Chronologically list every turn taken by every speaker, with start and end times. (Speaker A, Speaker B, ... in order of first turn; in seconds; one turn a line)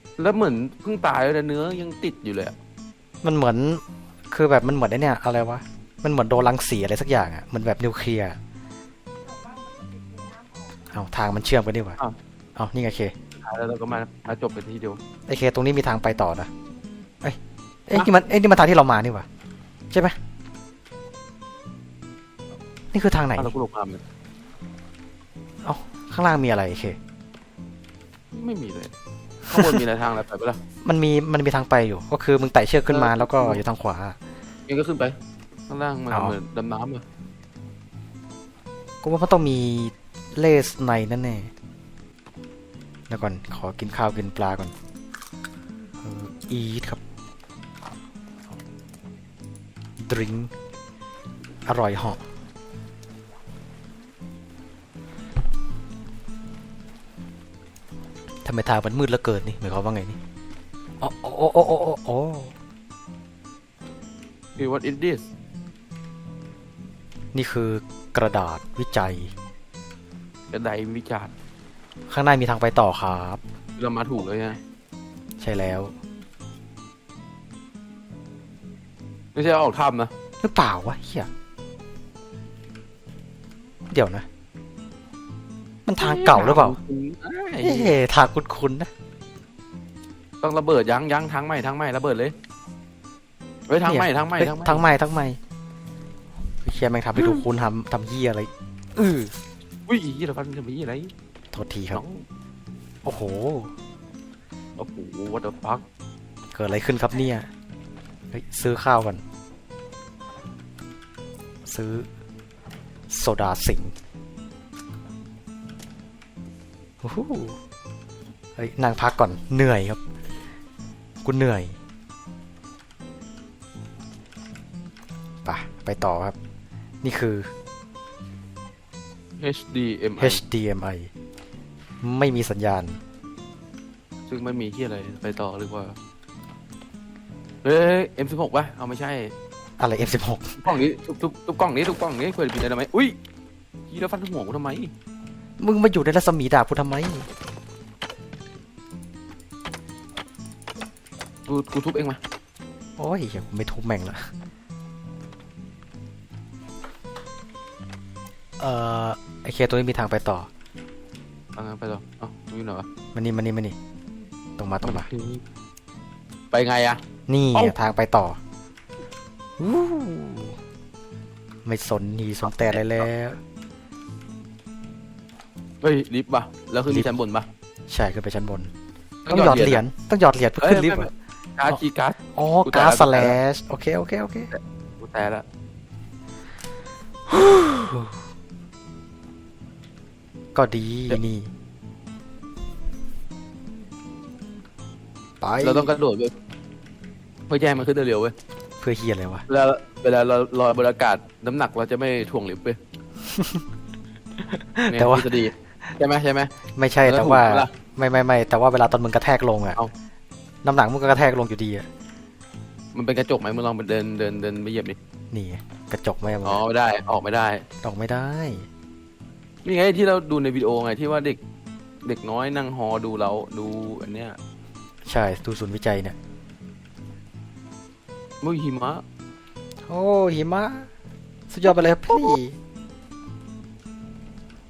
Speaker A: 0.2-2.5
Speaker B: 3.2-8.4
Speaker B: 10.9-12.0
Speaker B: 12.6-13.1
Speaker A: 13.4-15.0
Speaker B: 15.3-16.5
Speaker B: 17.2-19.3
Speaker B: 19.9-20.2
Speaker B: 22.9-23.5
Speaker A: 23.4-24.0
Speaker B: 25.6-27.0
Speaker A: 28.3-28.9
Speaker A: 29.5-30.6
Speaker B: 29.5-29.8
Speaker B: 30.8-34.2
Speaker A: 32.9-33.6
Speaker A: 34.7-35.1
Speaker A: 35.7-37.0
Speaker B: 36.1-36.4
Speaker B: 39.0-41.5
Speaker B: 43.1-44.7
Speaker B: 46.0-47.0
Speaker B: 50.0-50.5
Speaker B: 51.7-52.2
Speaker B: 58.4-60.2
Speaker B: 61.0-62.5
Speaker A: 64.6-65.2
Speaker B: 67.3-69.3
Speaker A: 70.5-71.3
Speaker B: 72.1-73.4
Speaker A: 73.8-74.6
Speaker B: 75.4-75.9
Speaker A: 79.3-80.1
Speaker B: 80.4-81.3
Speaker B: 83.9-84.3
Speaker B: 85.9-86.8
Speaker A: 86.0-88.0
Speaker B: 87.6-88.9
Speaker A: 90.4-92.3
Speaker A: 93.7-94.8
Speaker B: 93.8-95.4
Speaker B: 96.6-99.3
Speaker A: 97.2-97.4
Speaker A: 99.9-101.1
Speaker B: 101.5-102.0
Speaker A: 101.9-102.2
Speaker B: 103.0-103.7
Speaker A: 104.8-105.8
Speaker B: 106.5-107.5
Speaker B: 108.3-109.2
Speaker B: 111.7-112.1
Speaker B: 113.1-113.9
Speaker B: 117.0-117.6
Speaker B: 118.6-120.0
Speaker B: 121.2-121.8
Speaker B: 125.5-126.3
Speaker B: 127.0-127.5
Speaker A: 129.4-130.4
Speaker B: 130.2-131.1
Speaker B: 132.0-133.0
Speaker A: 134.3-136.0
Speaker A: 137.6-139.3
Speaker B: 139.8-140.6
Speaker A: 140.6-143.2
Speaker A: 143.9-144.9
Speaker B: 145.6-147.3
Speaker A: 151.5-152.2
Speaker B: 153.0-154.2
Speaker B: 158.6-160.5
Speaker A: 161.6-162.9
Speaker B: 163.1-163.8
Speaker B: 164.6-165.1
Speaker A: 164.8-165.4
Speaker A: 166.5-167.0
Speaker B: 167.3-168.4
Speaker B: 169.6-170.6
Speaker B: 171.7-173.4
Speaker A: 172.4-173.1
Speaker A: 175.8-177.5
Speaker B: 177.9-178.7
Speaker A: 179.3-179.8
Speaker B: 179.3-181.1
Speaker A: 180.6-183.4
Speaker B: 182.3-184.5
Speaker A: 184.5-185.4
Speaker B: 187.3-188.2
Speaker B: 190.6-191.5
Speaker B: 195.4-195.9
Speaker A: 195.6-196.3
Speaker A: 197.5-198.3
Speaker B: 198.8-199.4
Speaker A: 199.5-202.8
Speaker B: 203.3-203.6
Speaker B: 204.8-205.3
Speaker A: 204.8-206.5
Speaker B: 206.8-209.8
Speaker A: 207.1-207.7
Speaker B: 210.6-211.9
Speaker A: 212.9-215.0
Speaker B: 215.3-216.6
Speaker A: 216.4-217.7
Speaker B: 217.8-218.7
Speaker A: 219.7-221.4
Speaker A: 222.1-224.4
Speaker B: 225.1-226.2
Speaker A: 228.4-229.0
Speaker B: 229.9-230.9
Speaker B: 231.5-232.6
Speaker A: 232.1-232.3